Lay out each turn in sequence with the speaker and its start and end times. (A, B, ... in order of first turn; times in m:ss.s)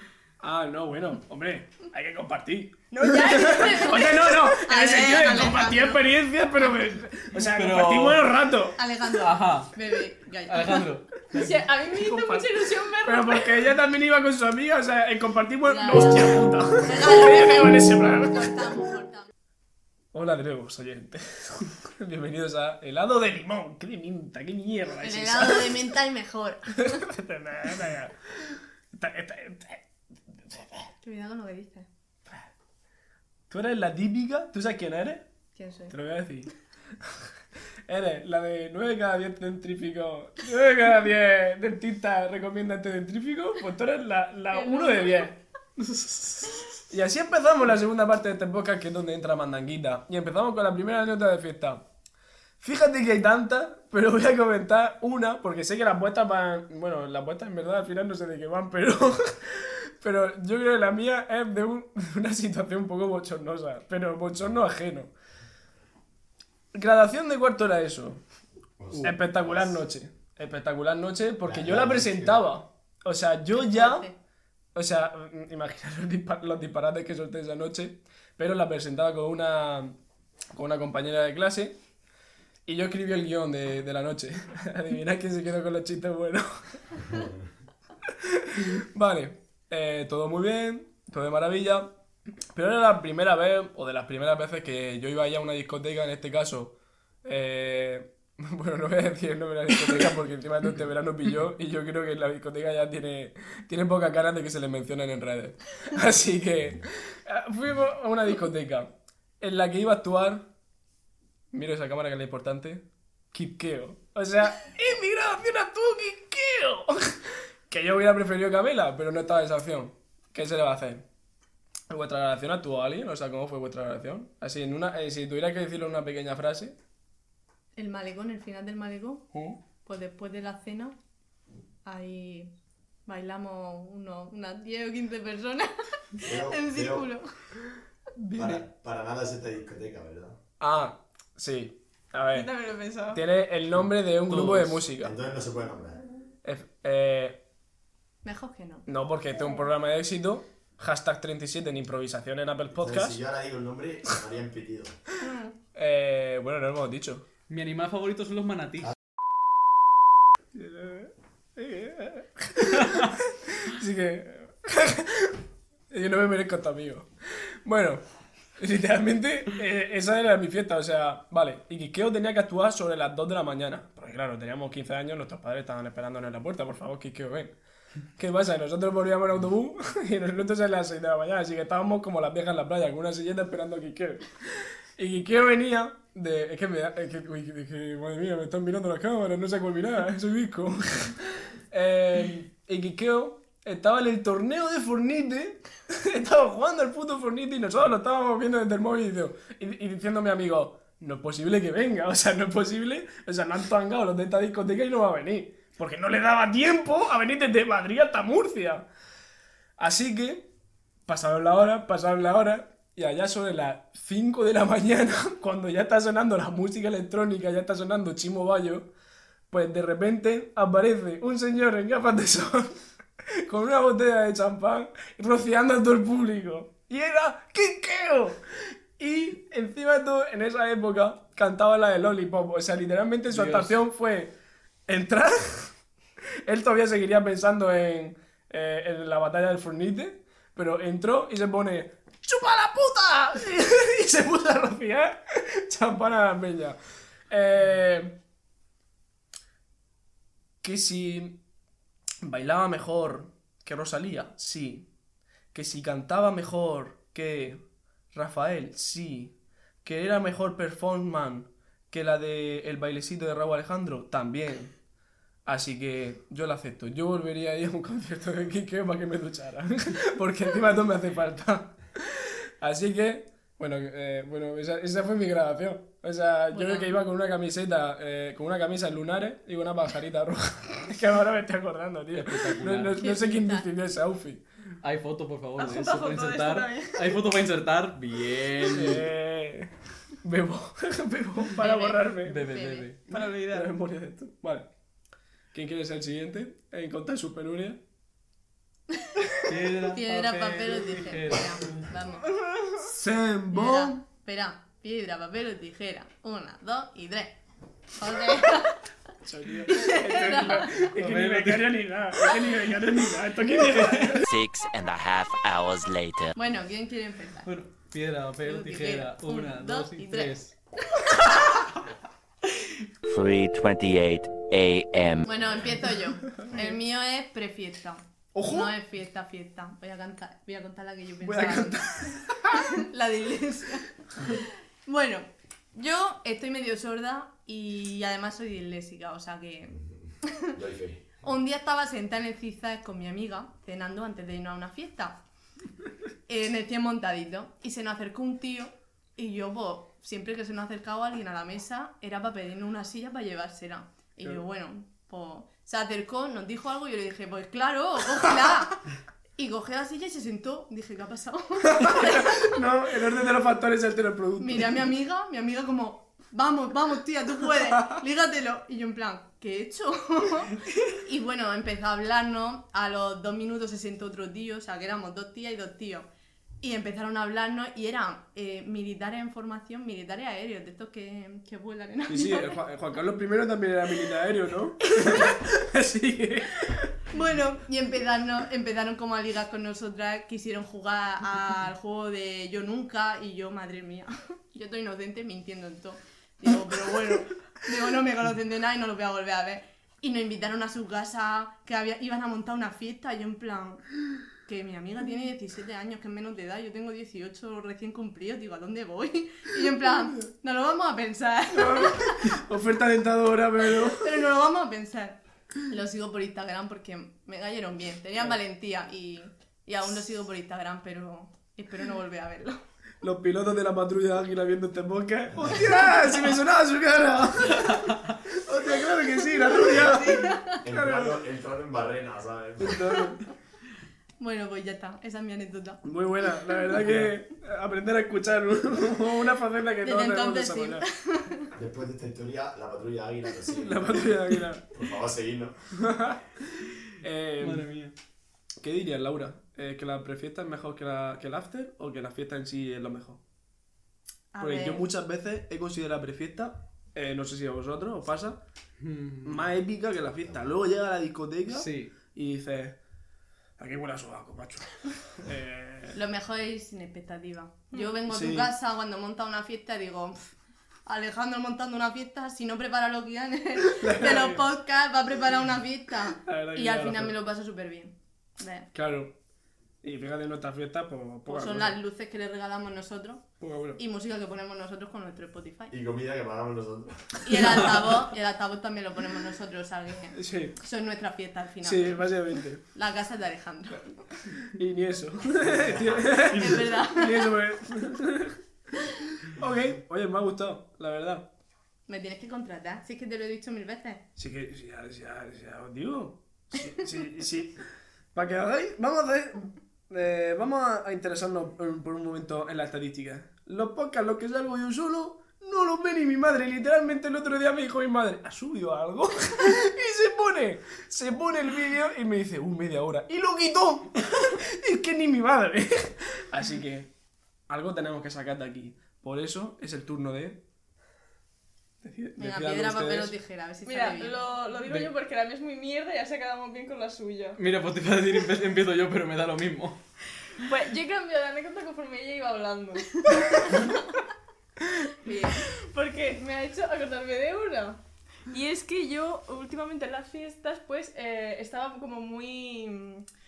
0:00.4-0:08.8 A
0:02.9-0:04.3 B
0:03.5-0:06.0 C
0:07.3-0:08.3 D
0:08.8-0:10.9 C
0:09.2-0:09.7 D
0:10.5-0:11.7 D
0:11.3-0:13.6 B
0:12.0-0:12.5 A
0:13.0-0:18.8 A
0:15.7-0:19.3 C
0:20.1-0:25.8 A
0:25.0-0:27.0 C
0:26.8-0:30.9 A
0:31.0-0:31.9 C
0:33.5-0:35.2 A
0:35.5-0:35.9 C
0:35.9-0:36.5 A
0:37.9-0:45.4 A
0:44.6-0:45.3 B
0:45.8-0:46.7 D
0:46.9-0:51.8 A
0:52.6-1:05.1 A
1:06.7-1:08.2 A
1:08.8-1:09.8 E
1:09.0-1:14.1 A
1:11.4-1:12.4 E
1:13.6-1:14.2 C
1:14.8-1:19.9 A
1:20.5-1:21.8 A
1:22.6-1:26.8 A
1:28.0-1:31.9 A
1:32.5-1:50.4 A
1:51.5-2:01.0 A
2:01.9-2:06.8 A
2:07.8-2:09.3 C
2:09.3-2:09.6 A
2:09.8-2:11.0 C
2:11.8-2:12.5 C
2:13.0-2:17.3 C
2:16.2-2:17.1 E
2:18.2-2:18.6 A
2:18.4-2:20.4 E
2:20.6-2:22.5 A
2:22.3-2:23.2 B
2:23.1-2:25.1 A
2:24.3-2:24.8 D
2:25.0-2:26.0 E
2:26.4-2:27.4 A
2:28.2-2:28.9 C
2:28.9-2:33.2 A
2:32.8-2:35.0 E
2:35.8-2:37.2 A
2:37.5-2:38.9 D
2:40.5-2:47.1 A
2:47.6-2:48.0 A
2:48.6-2:57.5 A
2:58.2-3:28.9 A
3:29.8-3:30.5 A
3:31.1-3:38.9 A
3:39.5-3:42.8 A
3:43.4-3:54.3 A
3:53.3-3:53.8 D
3:54.9-3:55.7 A
3:56.4-4:06.8 A
4:07.3-4:08.2 A
4:10.6-4:11.4 A
4:12.2-4:14.9 A
4:15.5-4:17.6 A
4:18.1-4:24.7 A
4:25.4-4:44.4 A
4:36.5-4:36.9 C
4:42.1-4:43.0 D
4:43.0-4:43.7 C
4:44.8-4:49.1 D
4:45.6-4:47.2 B
4:48.7-4:52.5 A
4:51.6-4:52.9 C
4:52.2-4:53.0 D
4:53.1-4:53.7 B
4:53.1-4:54.7 A
4:55.5-4:57.8 A
4:59.4-5:01.9 D
4:59.8-5:02.3 C
5:02.3-5:02.8 B
5:02.8-5:04.0 A
5:03.5-5:07.4 C
5:07.9-5:08.8 C
5:09.2-5:14.3 A
5:09.7-5:10.8 C
5:10.8-5:11.9 D
5:14.2-5:16.3 F
5:16.3-5:17.5 C
5:17.4-5:20.5 D
5:18.4-5:20.3 C
5:23.0-5:25.3 F
5:25.2-5:31.9 C
5:28.3-5:28.7 A
5:31.2-5:32.6 A
5:32.5-5:40.5 C
5:40.5-5:41.0 E
5:41.2-5:45.2 C
5:46.3-5:58.8 C
5:59.4-6:02.5 C
6:01.6-6:04.9 A
6:04.4-6:16.1 C
6:16.6-6:22.6 C
6:22.1-6:26.9 A
6:25.0-6:25.3 C
6:27.1-6:43.8 C
6:44.4-6:52.3 C
6:51.5-6:54.2 A
6:53.9-7:02.6 C
7:03.0-7:11.2 A
7:09.6-7:10.6 C
7:10.6-7:13.0 E
7:12.6-7:13.2 A
7:14.2-7:15.8 C
7:15.8-7:20.8 A
7:19.8-7:21.5 C
7:21.6-7:24.2 E
7:23.5-7:24.6 A
7:24.7-7:25.6 E
7:25.7-7:26.2 A
7:27.0-7:27.7 A
7:27.4-7:27.9 D
7:28.6-7:33.2 A
7:34.3-7:34.9 C
7:34.4-7:38.4 A
7:38.8-7:39.4 D
7:39.2-7:42.8 A
7:41.5-7:41.9 D
7:43.6-7:46.0 A
7:45.9-7:50.3 C
7:48.1-7:48.5 A
7:50.9-7:58.7 C
7:53.7-7:54.4 A
7:56.2-7:57.2 A
7:58.7-7:59.1 A
7:59.8-8:01.8 A
8:01.3-8:03.2 C
8:03.4-8:03.8 A
8:03.8-8:05.7 C
8:05.7-8:07.4 E
8:07.2-8:12.2 C
8:10.1-8:10.6 A
8:11.6-8:12.6 A
8:12.7-8:13.9 C
8:14.5-8:18.4 A
8:15.5-8:16.0 E
8:16.1-8:17.3 C
8:19.2-8:21.3 A
8:21.9-8:24.0 C
8:24.2-8:27.6 A
8:28.1-8:46.9 A
8:47.5-8:50.4 A
8:51.8-8:53.1 A
8:52.2-8:54.2 C
8:53.6-8:57.4 B
8:57.4-8:59.8 D
9:00.4-9:04.0 B
9:05.0-9:05.4 C
9:05.4-9:13.1 B